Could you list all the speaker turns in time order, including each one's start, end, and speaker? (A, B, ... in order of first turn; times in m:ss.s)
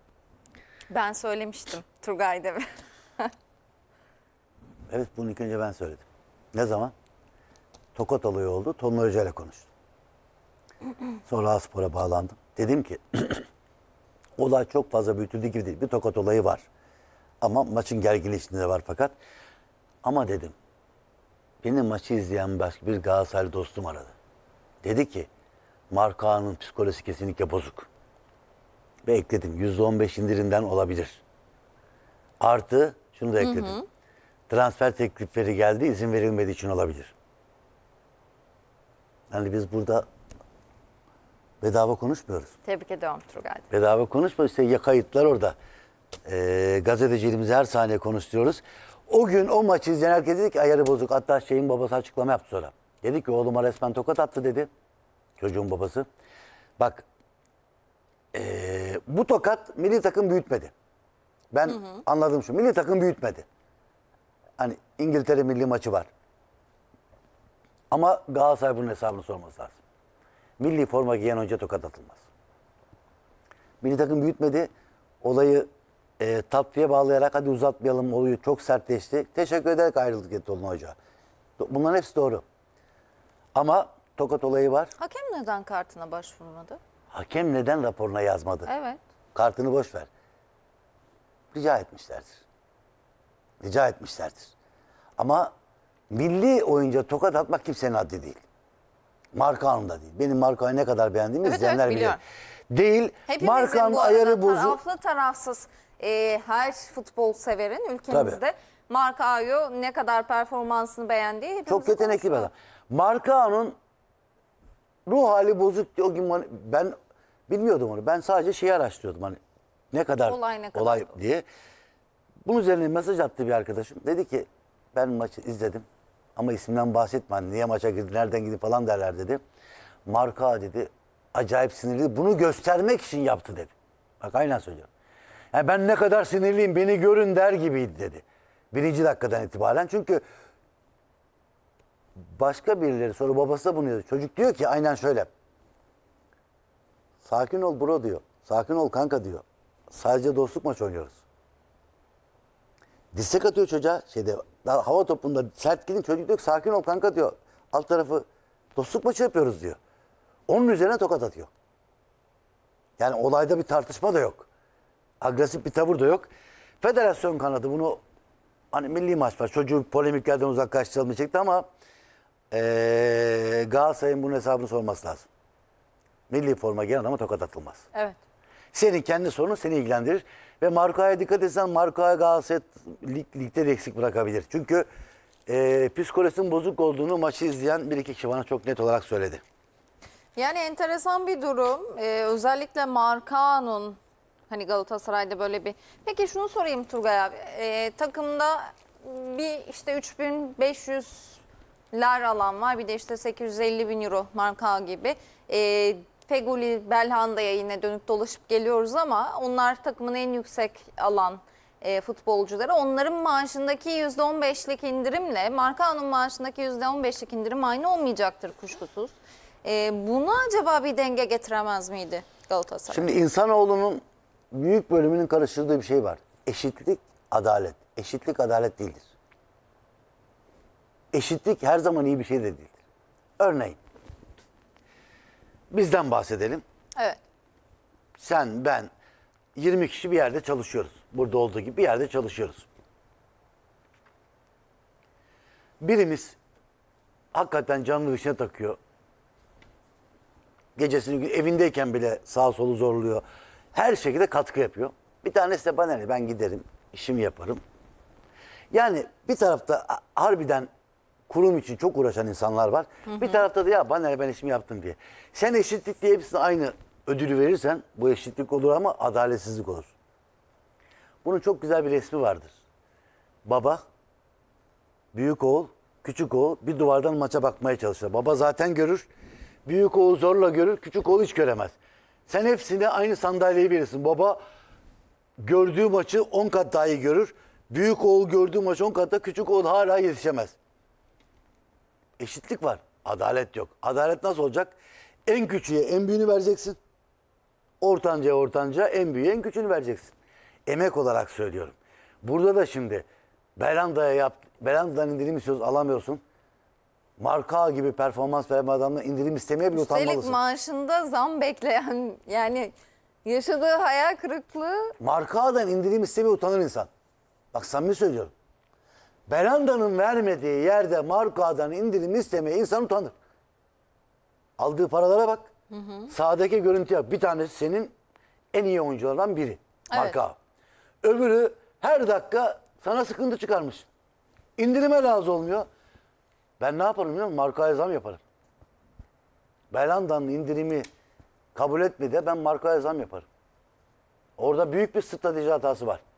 0:00.9-0:02.7 A
0:04.9-0:06.9 B
0:08.0-0:09.7 B
0:11.3-0:13.5 B
0:14.4-0:16.7 B
0:17.4-0:19.1 B
0:20.0-0:20.5 B
0:21.6-0:24.2 B
0:24.8-0:25.3 B
0:25.9-0:27.9 B
0:29.0-0:31.2 B
0:32.4-0:33.8 B
0:33.4-0:33.8 A
0:34.5-0:37.2 B
0:39.3-0:40.0 B
0:41.6-0:42.6 B
0:42.6-0:43.7 A
0:43.7-0:45.6 B
0:46.2-0:54.7 B
0:55.4-0:56.1 B
0:56.8-0:57.0 B
0:58.3-1:00.7 B
1:01.5-1:03.5 B
1:04.6-1:06.1 B
1:07.9-1:09.8 B
1:10.6-1:12.2 B
1:13.8-1:14.7 B
1:15.2-1:15.7 B
1:16.2-1:21.0 B
1:21.6-1:22.4 B
1:23.6-1:24.9 B
1:25.0-1:26.8 A
1:27.1-1:28.7 B
1:28.7-1:29.0 A
1:29.4-1:30.1 B
1:31.5-1:32.4 B
1:33.6-1:34.5 B
1:35.2-1:35.5 B
1:36.1-1:38.4 B
1:39.3-1:42.2 B
1:41.4-1:42.2 A
1:42.7-1:44.8 B
1:43.3-1:52.5 A
1:48.1-1:48.4 B
1:51.7-1:53.8 B
1:55.1-1:56.9 B
1:57.5-1:59.4 B
1:59.9-2:01.4 B
2:00.2-2:01.1 A
2:02.4-2:09.4 B
2:10.1-2:14.9 B
2:15.5-2:20.2 B
2:22.3-2:25.3 B
2:27.2-2:31.2 B
2:33.1-2:39.8 B
2:40.5-2:41.5 B
2:43.0-2:44.5 B
2:45.2-2:46.3 B
2:46.8-2:48.0 B
2:48.7-2:51.7 B
2:52.5-2:55.3 B
2:56.3-2:57.9 B
2:58.7-3:04.9 B
3:05.5-3:09.4 B
3:10.4-3:14.0 A
3:14.5-3:43.1 A
3:42.9-3:44.0 B
3:44.5-3:49.1 B
3:51.1-3:52.7 B
3:53.4-3:53.8 B
3:55.7-3:56.6 B
3:58.2-3:58.9 B
3:59.6-4:02.7 B
4:05.8-4:06.4 B
4:07.3-4:08.8 B
4:10.8-4:13.2 B
4:13.7-4:17.6 B
4:18.7-4:20.7 B
4:21.3-4:29.9 B
4:23.1-4:23.4 A
4:31.2-4:32.6 B
4:33.4-4:33.8 B
4:35.1-4:39.1 B
4:39.7-4:41.8 B
4:42.3-4:44.4 B
4:45.4-4:50.6 B
4:52.2-4:56.8 B
4:57.8-5:00.1 B
5:00.7-5:03.1 B
5:03.6-5:06.2 B
5:07.2-5:10.4 B
5:09.7-5:12.7 A
5:13.2-5:15.0 A
5:15.0-5:16.9 B
5:17.5-5:18.3 B
5:19.3-5:23.1 B
5:24.6-5:25.5 B
5:25.7-5:26.1 A
5:26.1-5:27.9 B
5:28.5-5:30.4 B
5:29.9-5:30.2 A
5:31.0-5:33.9 B
5:34.6-5:35.7 B
5:36.6-5:38.2 B
5:39.7-5:40.8 B
5:41.6-5:43.3 B
5:44.4-5:46.0 B